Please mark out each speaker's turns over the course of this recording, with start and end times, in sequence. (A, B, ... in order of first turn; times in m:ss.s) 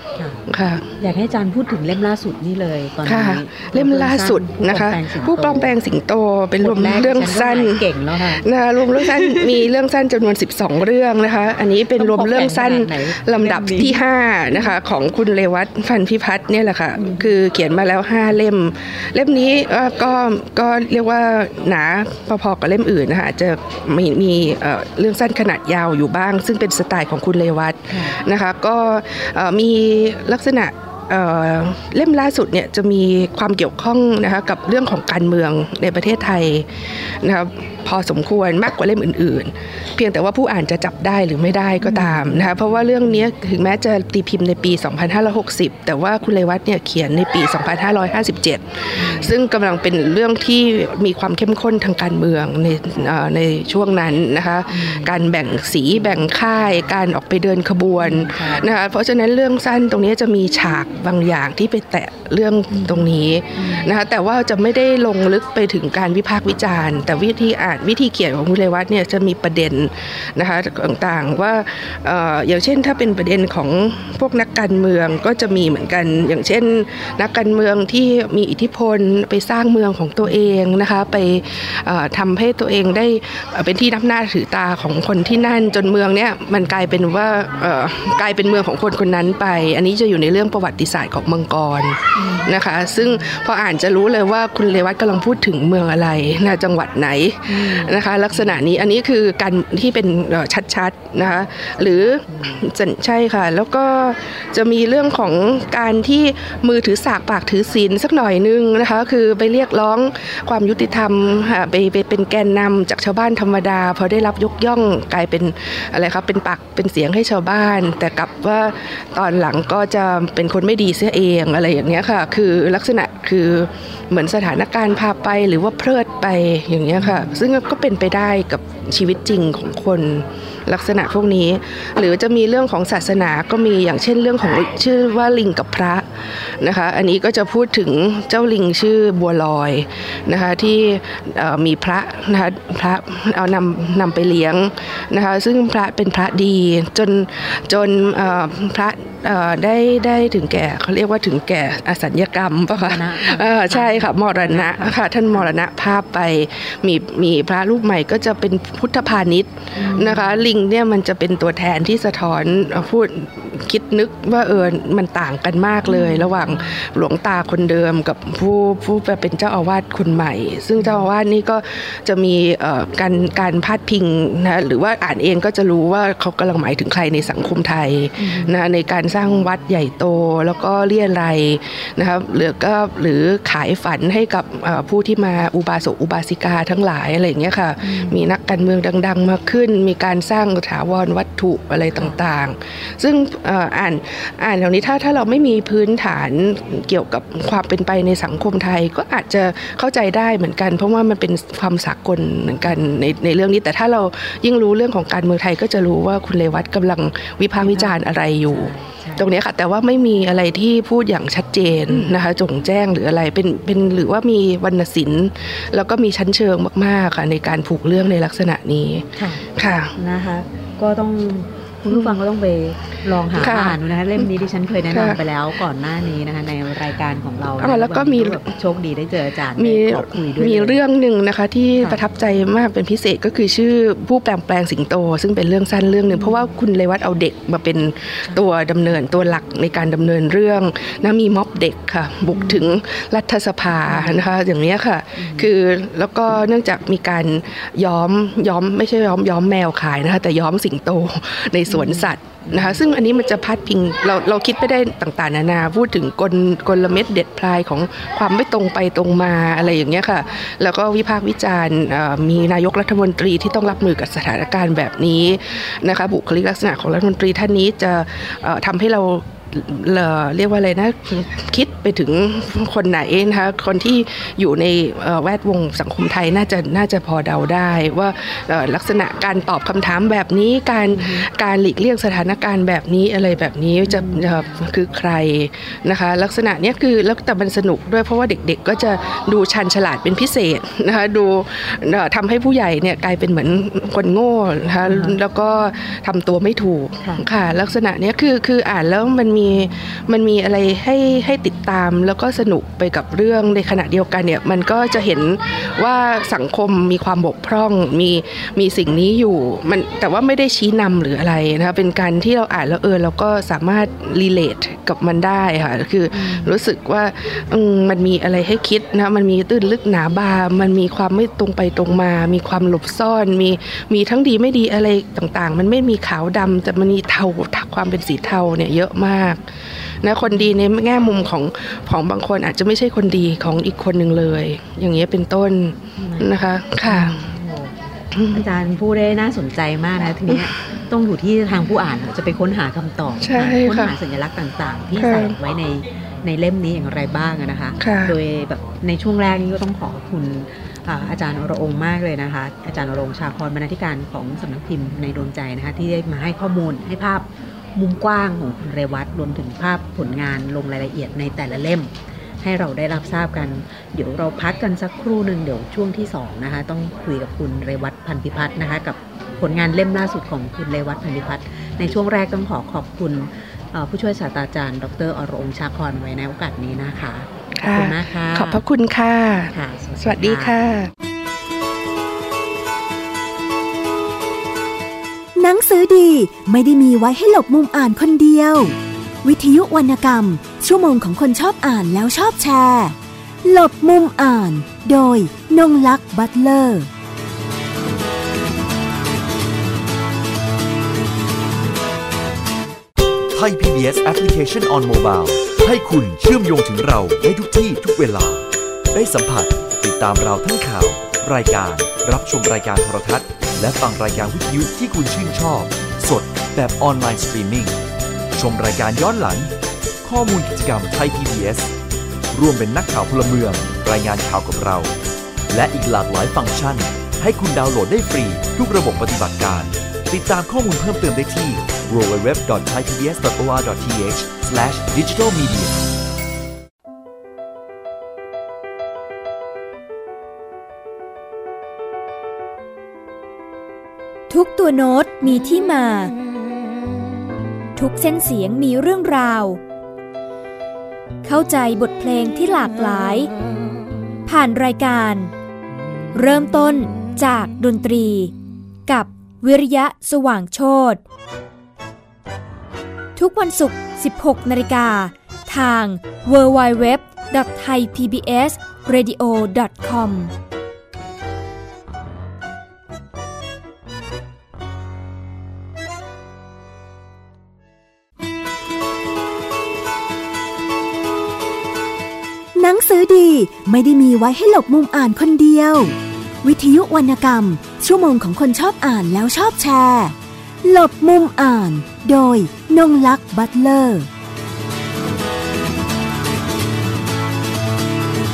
0:00.2-0:00.4 A
0:00.5-0:00.9 B
0:01.0-0:05.8 A
0:03.0-0:07.9 B
0:06.6-0:08.4 A
0:08.4-3:39.9 B
0:09.0-0:09.5 A
0:12.0-0:14.0 A
0:17.0-0:17.3 A
0:27.9-0:28.2 A
0:41.8-0:43.1 A
0:49.0-0:49.3 A
0:54.7-0:55.1 A
0:58.0-0:58.7 A
1:02.7-1:03.9 A
1:32.2-1:33.4 A
1:37.5-1:38.6 A
1:42.3-1:42.6 A
2:07.0-2:07.3 A
2:32.8-2:35.4 A
2:39.8-2:40.4 A
2:45.9-2:46.6 A
2:50.8-2:51.1 A
2:58.2-2:58.6 A
3:07.8-3:08.2 A
3:27.6-3:29.3 A
3:39.2-3:39.4 A
3:40.0-3:50.8 A
3:43.4-3:43.8 B
3:44.9-3:45.2 B
3:47.6-3:48.4 B
3:49.6-5:29.5 B
3:56.1-3:56.4 A
4:02.3-4:02.7 A
4:03.9-4:04.2 A
4:05.2-4:05.5 A
4:11.7-4:12.8 A
4:41.0-4:41.2 A
4:43.9-4:44.3 A
4:54.8-4:55.2 A
5:16.1-5:16.6 A
5:30.0-5:37.2 B
5:36.0-5:37.7 A
5:38.2-5:38.4 B
5:38.3-6:18.6 A
5:43.2-5:43.9 B
5:45.0-5:45.4 B
5:47.8-5:48.2 B
6:17.6-6:20.9 B
6:19.5-6:20.6 A
6:25.4-6:36.9 C
6:43.3-6:57.8 D
6:58.3-6:59.5 D
7:00.0-7:01.7 D
7:02.3-7:04.9 D
7:05.5-7:15.8 D
7:24.3-7:26.1 E
7:27.8-7:29.6 E
7:31.2-7:33.3 E
7:34.3-7:35.3 E
7:36.1-7:38.3 E
7:38.9-7:41.0 E
7:43.2-7:50.3 E
8:02.6-8:14.1 C